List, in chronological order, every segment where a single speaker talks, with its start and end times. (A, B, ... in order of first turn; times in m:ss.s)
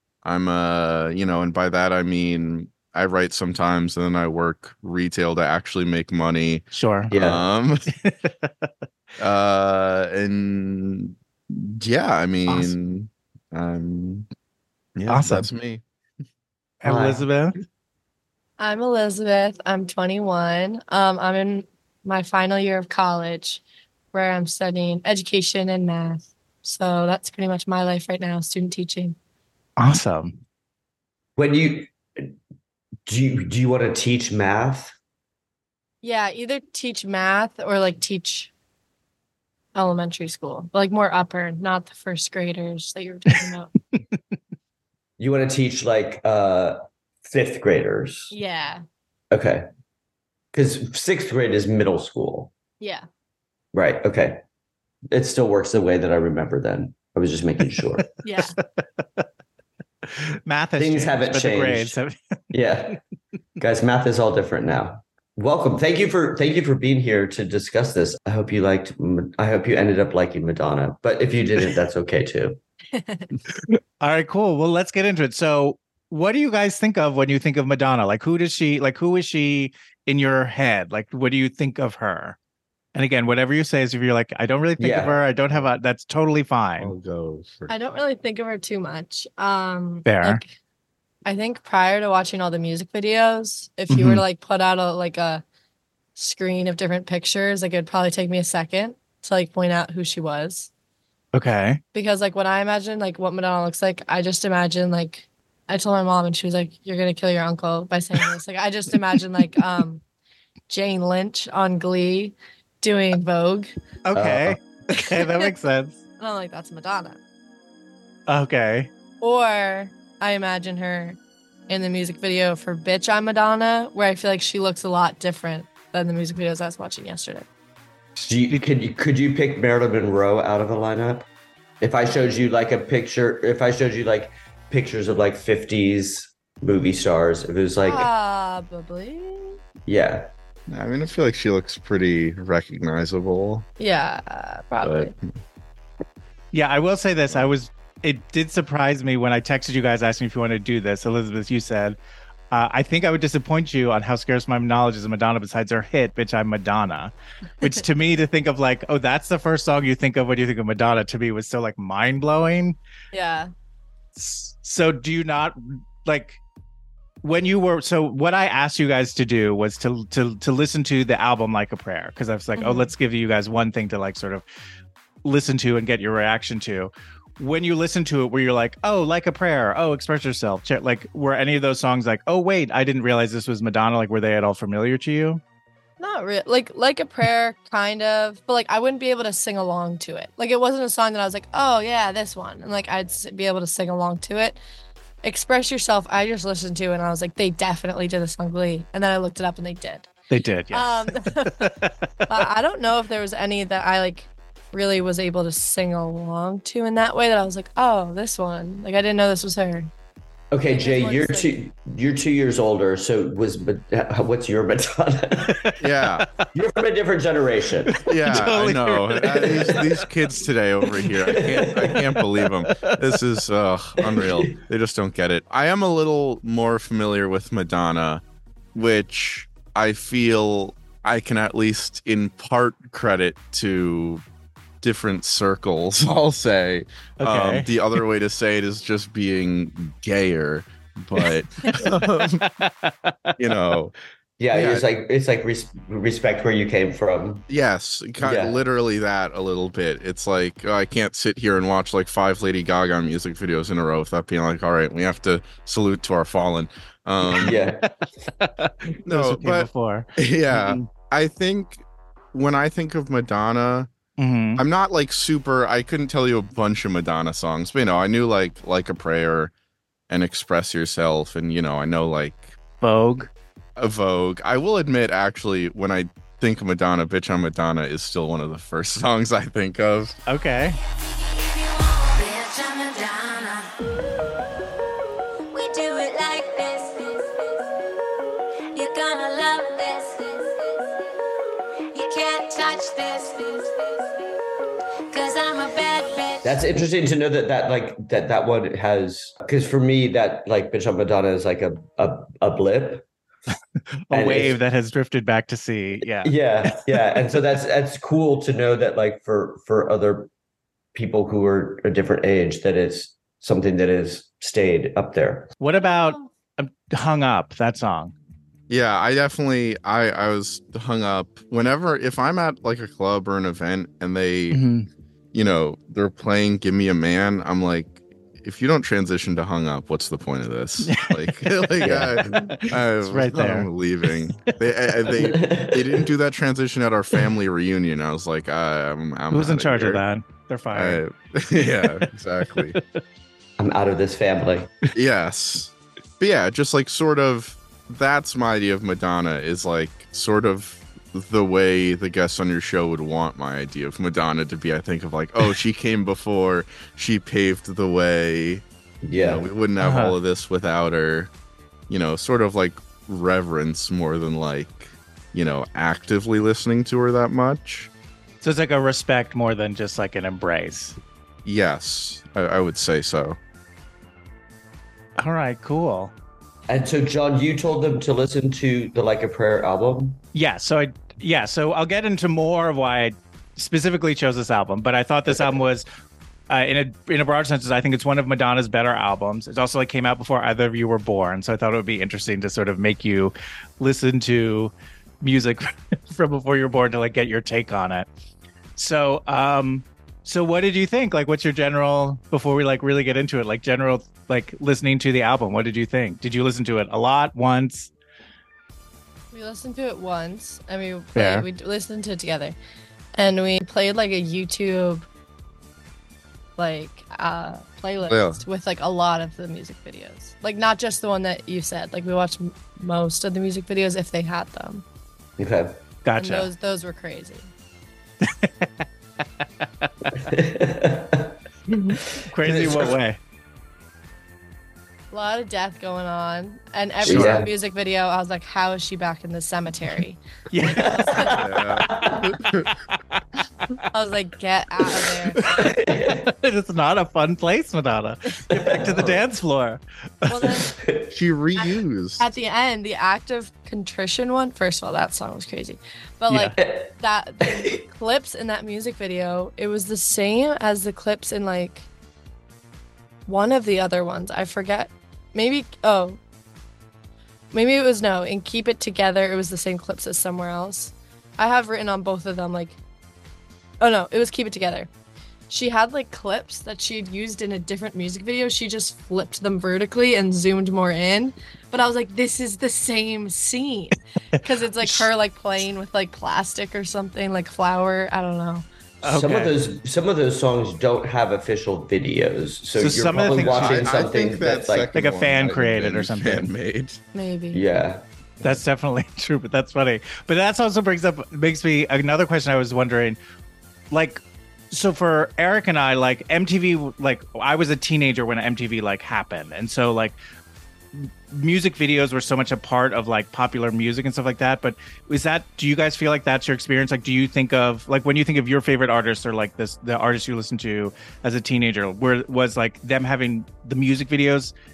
0:00.2-0:07.9 A
0:06.7-0:07.1 B
0:07.1-0:07.4 C
0:07.9-0:08.6 B
0:09.2-0:14.3 A
0:12.5-0:12.7 B
0:15.0-0:15.8 A
0:15.1-0:15.5 B
0:16.8-0:17.6 B
0:16.8-0:17.3 C
0:18.6-0:23.6 D
0:24.1-0:29.2 D
0:29.8-0:30.4 B
0:31.4-0:32.4 C
0:33.1-0:35.0 C
0:36.0-0:38.5 D
0:39.8-0:43.7 D
0:45.2-0:48.3 C
0:48.3-0:48.8 D
0:49.3-0:49.7 C
0:50.5-0:52.5 C
0:52.8-0:53.0 D
0:53.7-0:54.4 C
0:55.1-0:58.1 C
0:58.2-0:58.6 D
0:58.8-0:59.2 B
1:00.1-1:02.2 B
1:00.8-1:02.0 C
1:02.5-1:03.0 C
1:03.6-1:12.6 C
1:13.0-1:13.3 D
1:14.0-1:22.4 B
1:23.0-1:26.9 B
1:24.8-1:25.2 C
1:26.8-1:27.7 A
1:27.7-1:30.5 D
1:30.0-1:30.4 B
1:31.3-1:35.4 D
1:33.9-1:34.2 B
1:36.2-1:40.7 D
1:41.3-1:41.8 B
1:41.9-1:50.0 D
1:50.7-1:53.7 D
1:54.1-1:56.0 B
1:54.2-1:54.6 C
1:56.2-1:57.2 D
1:58.3-1:58.9 B
1:59.2-2:01.2 D
2:01.7-2:07.5 D
2:08.2-2:11.3 C
2:11.8-2:18.1 C
2:17.8-2:19.6 D
2:19.9-2:20.3 C
2:20.7-2:23.7 A
2:23.8-2:25.1 D
2:24.8-2:25.1 A
2:26.5-2:32.0 B
2:32.5-2:42.8 B
2:43.1-2:43.5 D
2:44.2-2:46.4 B
2:47.2-2:54.4 B
2:52.6-2:52.9 D
2:55.2-3:05.4 B
3:06.0-3:14.6 D
3:15.2-3:20.1 D
3:20.3-3:21.9 B
3:20.7-3:21.7 D
3:22.3-3:29.9 D
3:30.5-3:35.6 C
3:30.7-3:31.5 D
3:35.8-3:36.3 A
3:36.5-3:38.0 C
3:37.9-3:39.9 B
3:38.1-3:48.2 A
3:41.2-3:42.0 C
3:42.7-3:43.0 B
3:44.1-3:44.4 C
3:48.8-3:54.2 A
3:54.8-4:02.5 A
3:57.2-3:58.0 B
4:01.2-4:02.0 B
4:02.6-4:03.3 B
4:03.4-4:03.9 A
4:04.4-4:07.4 C
4:04.5-4:04.8 A
4:07.5-4:17.6 A
4:08.2-4:08.6 C
4:17.4-4:17.8 C
4:18.4-4:20.1 B
4:19.0-4:23.9 A
4:20.6-4:20.8 C
4:24.2-4:24.6 B
4:24.6-4:29.5 A
4:30.1-4:32.6 A
4:32.8-4:33.3 B
4:33.8-4:40.2 A
4:40.3-4:40.8 B
4:40.9-4:43.8 E
4:45.5-4:47.6 E
4:48.7-4:50.9 E
4:51.9-4:54.3 E
4:55.1-4:56.6 E
4:56.4-5:03.1 C
5:04.1-5:07.0 B
5:04.1-5:04.6 C
5:06.2-5:10.3 C
5:10.9-5:15.5 C
5:15.6-5:18.2 B
5:18.7-5:24.7 A
5:24.5-5:24.9 B
5:25.3-5:40.0 A
5:30.8-5:31.5 B
5:31.8-5:32.1 C
5:32.6-5:33.7 B
5:35.2-5:36.1 C
5:39.3-5:41.0 B
5:40.7-5:42.8 A
5:43.6-5:44.7 C
5:44.9-6:01.3 A
5:59.1-5:59.4 C
5:59.8-6:00.2 B
6:01.9-6:07.9 A
6:08.4-6:11.0 B
6:11.4-6:13.4 A
6:15.2-6:16.1 B
6:16.7-6:20.2 C
6:20.3-6:25.9 B
6:25.3-6:25.6 C
6:26.5-6:38.1 B
6:38.8-6:47.9 B
6:49.3-6:52.6 D
6:51.2-6:51.4 B
6:53.2-6:55.1 D
6:56.6-7:04.8 D
6:58.0-6:58.4 A
7:05.4-7:05.8 C
7:06.0-7:06.5 B
7:06.2-7:07.5 D
7:08.2-7:08.5 B
7:10.2-7:11.3 C
7:11.7-7:13.2 B
7:12.4-7:13.0 C
7:15.1-7:20.2 D
7:17.0-7:17.5 C
7:17.0-7:17.5 A
7:20.5-7:21.3 B
7:20.6-7:22.2 C
7:21.2-7:22.7 A
7:23.9-7:25.4 D
7:25.5-7:26.2 C
7:25.5-7:30.6 B
7:28.5-7:29.2 C
7:30.3-7:30.6 D
7:30.6-7:31.1 C
7:31.1-7:32.3 A
7:32.2-7:41.9 D
7:36.3-7:36.6 B
7:36.6-7:37.8 C
7:43.3-7:46.2 D
7:47.5-7:52.8 D
7:53.8-7:54.9 D
7:55.5-8:08.7 D
8:09.0-8:14.9 C
8:09.0-8:09.6 B
8:12.8-8:14.0 B
8:13.3-8:17.0 A
8:14.9-8:16.5 B
8:17.1-8:17.6 D
8:17.5-8:18.0 C
8:18.4-8:23.2 B
8:23.9-8:30.2 B
8:30.9-8:44.5 B